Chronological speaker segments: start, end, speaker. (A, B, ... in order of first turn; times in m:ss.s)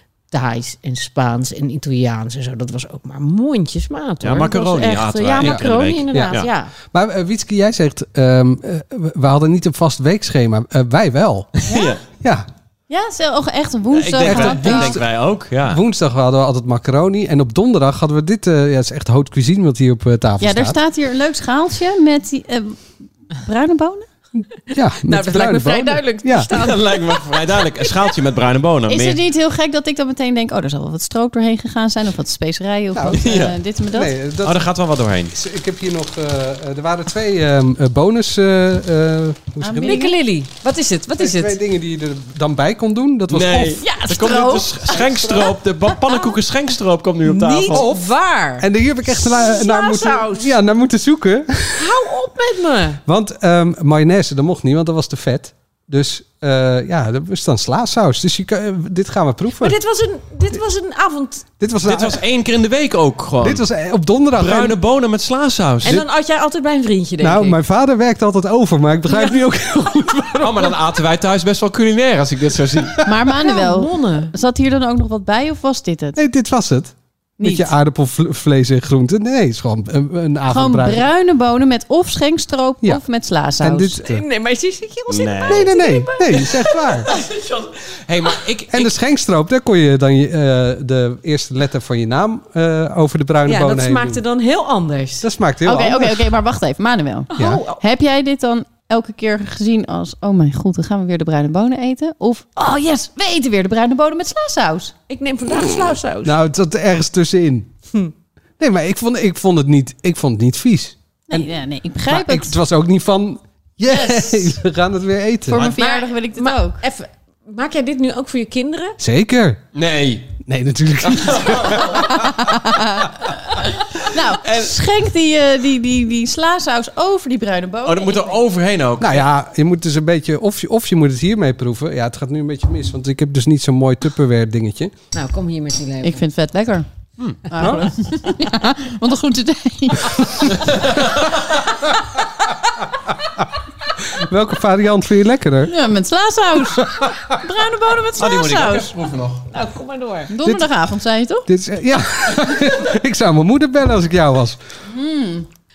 0:00.3-0:06.7 A
0:04.2-0:06.5 B
0:05.4-0:06.4 C
0:06.9-0:11.5 C
0:11.7-0:12.0 B
0:11.7-0:12.0 D
0:12.2-0:12.5 C
0:12.9-0:15.0 D
0:13.9-0:15.8 B
0:14.2-0:15.0 C
0:15.6-0:20.8 C
0:20.4-0:24.1 D
0:24.4-0:26.5 C
0:25.0-0:28.1 A
0:26.5-0:29.2 B
0:28.9-0:34.1 D
0:32.9-0:33.4 C
0:33.2-0:33.6 B
0:33.9-0:34.7 C
0:34.4-0:35.4 B
0:35.3-0:40.0 C
0:39.6-0:40.2 D
0:39.8-0:41.6 A
0:41.2-0:43.8 C
0:43.3-0:47.9 B
0:43.8-0:44.7 A
0:44.1-0:44.7 D
0:47.2-0:50.5 A
0:47.7-0:52.0 C
0:51.8-0:53.0 A
0:53.0-0:59.8 C
0:59.6-1:01.5 A
1:01.6-1:02.2 C
1:01.8-1:03.6 B
1:03.4-1:04.8 C
1:04.4-1:06.0 B
1:05.8-1:07.6 A
1:07.2-1:10.8 C
1:09.1-1:09.4 A
1:10.4-1:13.1 B
1:13.0-1:16.2 D
1:13.4-1:14.3 A
1:16.2-1:21.1 C
1:17.4-1:17.7 D
1:20.5-1:24.0 D
1:23.6-1:24.2 C
1:24.0-1:27.3 A
1:25.1-1:25.7 B
1:25.5-1:27.1 C
1:27.1-1:29.0 B
1:28.7-1:34.2 C
1:33.5-1:35.3 A
1:35.2-1:36.3 C
1:35.6-1:44.9 D
1:37.3-1:37.8 A
1:37.4-1:37.6 C
1:45.1-1:46.4 A
1:46.2-1:47.7 C
1:48.6-1:51.5 C
1:51.3-1:52.5 D
1:52.1-1:55.6 C
1:53.9-1:54.5 D
1:55.5-1:56.8 D
1:55.8-1:59.0 A
1:59.0-1:59.6 C
1:59.7-2:00.3 B
2:00.5-2:02.4 C
2:01.0-2:02.1 B
2:02.2-2:08.4 D
2:04.4-2:04.7 B
2:07.8-2:09.3 B
2:09.0-2:14.9 C
2:15.1-2:16.2 A
2:16.0-2:16.9 D
2:17.5-2:21.0 D
2:17.6-2:17.9 C
2:20.7-2:21.3 B
2:24.0-2:25.8 C
2:25.6-2:28.9 D
2:28.2-2:29.5 B
2:29.5-2:30.3 A
2:30.3-2:31.5 D
2:31.5-2:34.6 C
2:34.9-2:35.5 D